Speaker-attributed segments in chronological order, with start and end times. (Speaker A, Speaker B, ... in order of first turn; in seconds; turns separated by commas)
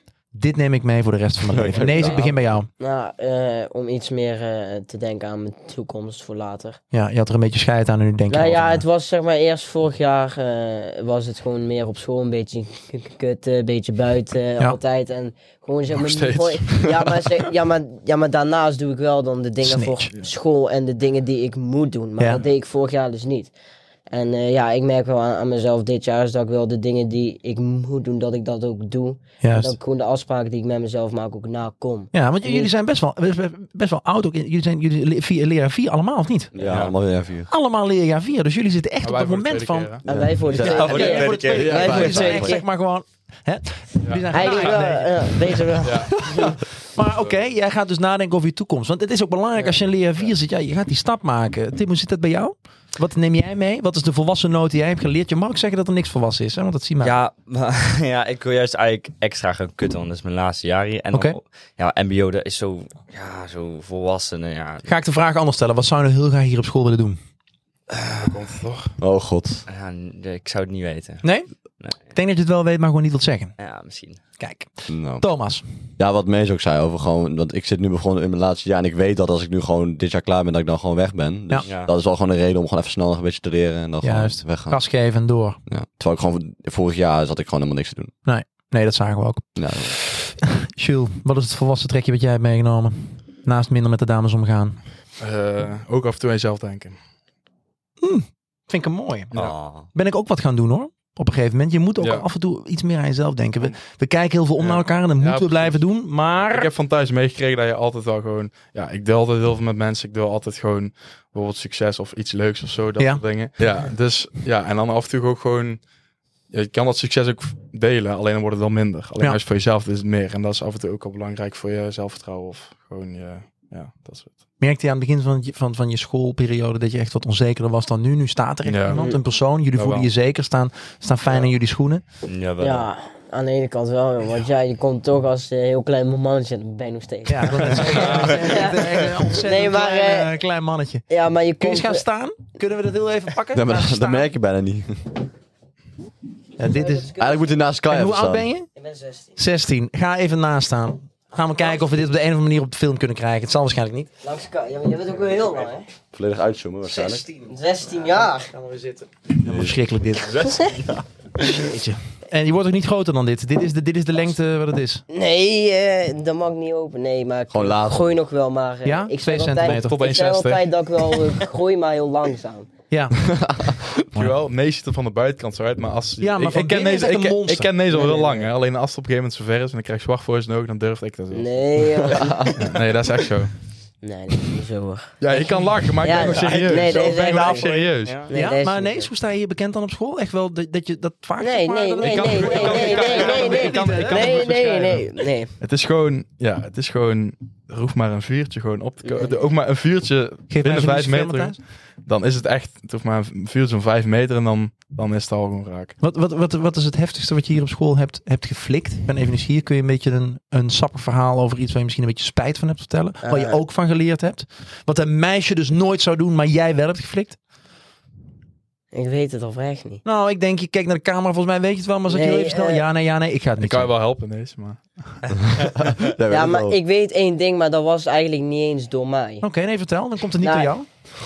Speaker A: 0.3-2.7, Speaker B: 1.5-2.4, Speaker C: 2.8-6.8, Speaker A: 6.9-8.8, Speaker C: 8.3-23.5, Speaker D: 15.9-17.3, Speaker A: 19.6-20.1, Speaker C: 24.1-32.7, Speaker A: 29.4-29.8, Speaker A: 32.1-36.5, Speaker B: 36.5-37.5, Speaker E: 36.5-36.9, Speaker A: 37.5-40.0, Speaker D: 39.0-40.0, Speaker B: 40.0-42.6, Speaker C: 40.0-42.6, Speaker E: 40.5-42.3, Speaker A: 40.6-57.2, Speaker D: 44.0-44.9, Speaker C: 44.3-46.5, Speaker D: 45.8-47.5, Speaker E: 57.0-64.9, Speaker A: 64.8-67.2, Speaker E: 67.9-68.3, Speaker D: 68.1-69.0, Speaker B: 69.0-69.6, Speaker E: 69.7-72.1, Speaker A: 71.2-71.5, Speaker A: 72.0-73.5, Speaker E: 73.6-74.2, Speaker A: 74.4-75.6, Speaker B: 74.9-75.2, Speaker B: 76.0-84.8, Speaker E: 81.6-81.9, Speaker A: 84.0-85.6, Speaker B: 85.7-88.1, Speaker A: 88.2-94.8, Speaker B: 89.5-90.0, Speaker D: 95.2-97.0, Speaker A: 98.0-106.7, Speaker D: 99.3-99.6, Speaker E: 99.3-99.9, Speaker D: 102.0-102.3, Speaker D: 104.6-105.8, Speaker D: 106.4-115.8, Speaker D: 116.5-124.3, Speaker A: 124.6-132.0, Speaker D: 128.6-129.0, Speaker C: 128.9-129.2, Speaker D: 129.7-130.1, Speaker E: 132.2-132.9, Speaker C: 132.6-140.3, Speaker A: 137.3-144.3, Speaker D: 137.8-138.6, Speaker C: 141.1-142.0, Speaker B: 143.5-145.0, Speaker A: 146.6-147.1, Speaker C: 146.6-147.6, Speaker B: 147.2-148.5, Speaker A: 147.9-148.7, Speaker C: 148.7-149.4, Speaker A: 149.3-154.1, Speaker C: 154.2-155.9, Speaker B: 156.1-157.2, Speaker A: 156.8-157.5, Speaker C: 157.5-158.5, Speaker A: 158.1-160.5, Speaker B: 159.4-159.8, Speaker E: 160.3-160.9, Speaker C: 160.4-160.7, Speaker A: 161.4-165.0, Speaker C: 165.1-172.7, Speaker B: 167.5-168.2, Speaker A: 168.8-170.0, Speaker D: 169.6-170.7, Speaker A: 172.9-173.2, Speaker B: 173.2-174.0, Speaker D: 174.1-183.5, Speaker A: 176.2-177.7, Speaker C: 177.9-178.5, Speaker C: 181.3-182.7, Speaker B: 182.1-182.6, Speaker C: 184.0-185.4, Speaker D: 185.2-188.3, Speaker C: 186.0-187.8, Speaker E: 186.2-188.3, Speaker A: 186.9-187.7, Speaker C: 188.3-189.1, Speaker A: 188.3-195.0, Speaker C: 191.4-195.5, Speaker D: 192.0-195.0, Speaker D: 195.6-205.9, Speaker C: 199.0-199.3, Speaker A: 200.5-201.6, Speaker A: 206.0-217.4, Speaker C: 213.2-213.6, Speaker C: 218.9-220.0, Speaker A: 220.0-223.9, Speaker C: 222.1-222.8, Speaker D: 223.6-225.3, Speaker B: 225.5-226.8, Speaker C: 226.3-229.4, Speaker A: 229.4-230.8, Speaker C: 230.4-230.7